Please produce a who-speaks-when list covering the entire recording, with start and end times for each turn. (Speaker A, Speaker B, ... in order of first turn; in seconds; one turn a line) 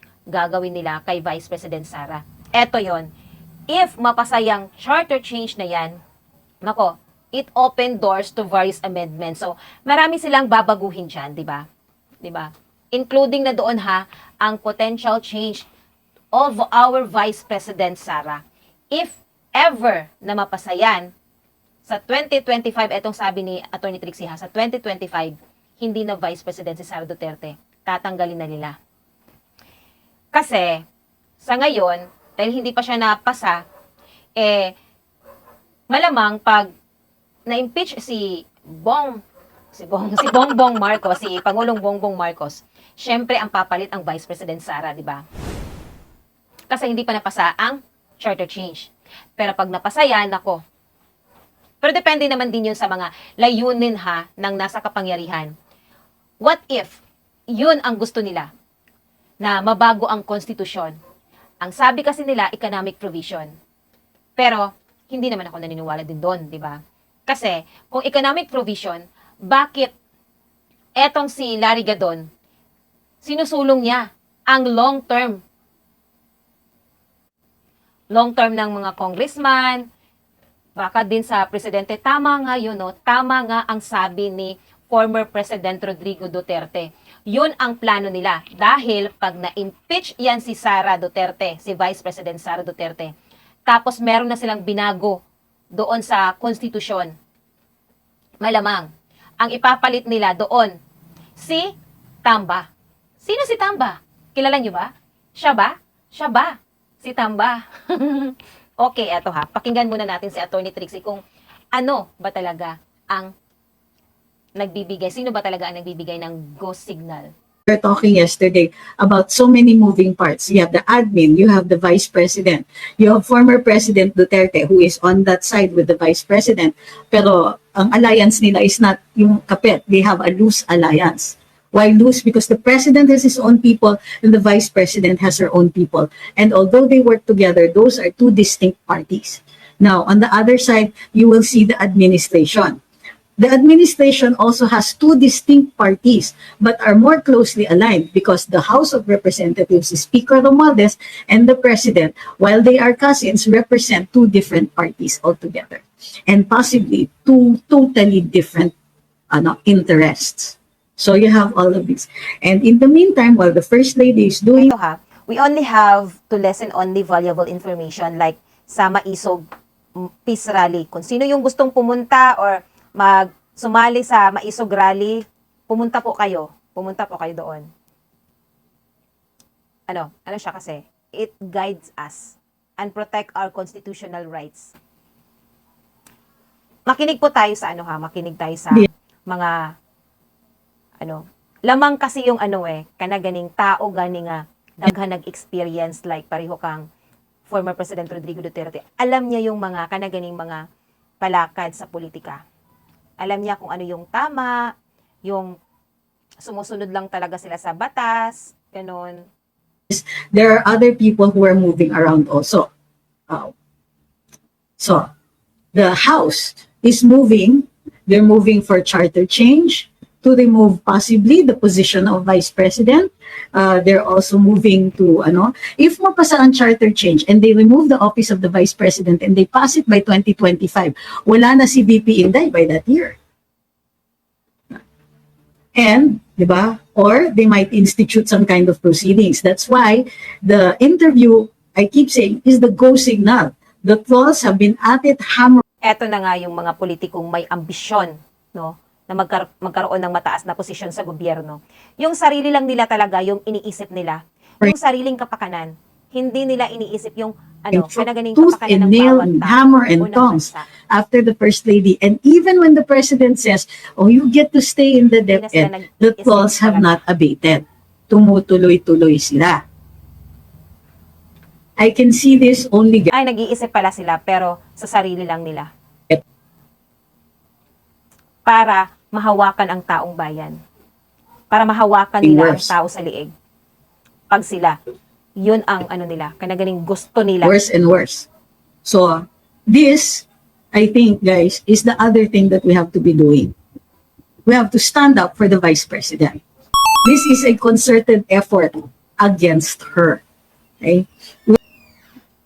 Speaker A: 0.3-3.1
Speaker A: 3.7-6.0
Speaker A: 6.6-11.6
Speaker A: 12.2-15.7
Speaker A: 16.3-18.4
Speaker A: 18.9-21.1
Speaker A: 21.9-28.7
Speaker A: 30.3-30.8
Speaker A: 31.4-33.6
Speaker A: 34.4-34.7
Speaker A: 35.9-36.7
Speaker A: 37.5-38.3
Speaker A: 38.8-39.2
Speaker A: 39.7-45.2
Speaker A: 46.7-50.6
Speaker A: 51.8-55.5
Speaker A: 56.4-57.0
Speaker A: 57.5-58.5
Speaker A: 59.4-60.9
Speaker A: 61.6-63.5
Speaker A: 64.4-69.9
Speaker A: 71.0-72.2
Speaker A: 73.2-75.4
Speaker A: 78.1-79.8
Speaker A: 80.8-93.1
Speaker A: 93.7-95.2
Speaker A: 95.8-97.1
Speaker A: 98.4-98.9
Speaker A: 99.4-100.7
Speaker A: 101.4-101.7
Speaker A: 102.2-102.6
Speaker A: 103.2-111.2
Speaker A: 111.7-113.3
Speaker A: 114.5-117.3
Speaker B: 117.7-142.8
Speaker B: 143.4-158.7
Speaker B: 159.3-164.7
Speaker A: 164.6-169.4
Speaker A: 170.2-177.6
Speaker A: 179.9-184.7
Speaker A: 186.9-189.6
Speaker A: 191.0-196.8
Speaker A: 197.5-200.6
Speaker A: 201.2-202.4
Speaker A: 203.2-204.6
Speaker A: 205.2-205.5
Speaker A: 206.4-209.2
Speaker B: 209.9-212.7
Speaker B: 214.8-215.1
Speaker B: 215.7-233.2
Speaker B: 235.8-245.6
Speaker A: 245.8-260.7
Speaker B: 257.7-269.6
Speaker A: 265.3-266.9
Speaker B: 271.8-273.1
Speaker A: 273.1-275.7
Speaker A: 278.4-280.6
Speaker A: 281.5-283.3
Speaker B: 282.2-282.7
Speaker A: 284.3-284.8
Speaker A: 285.4-287.5
Speaker B: 287.4-288.3
Speaker B: 288.8-293.5
Speaker B: 294.4-296.4
Speaker B: 297.0-300.2
Speaker B: 300.8-301.6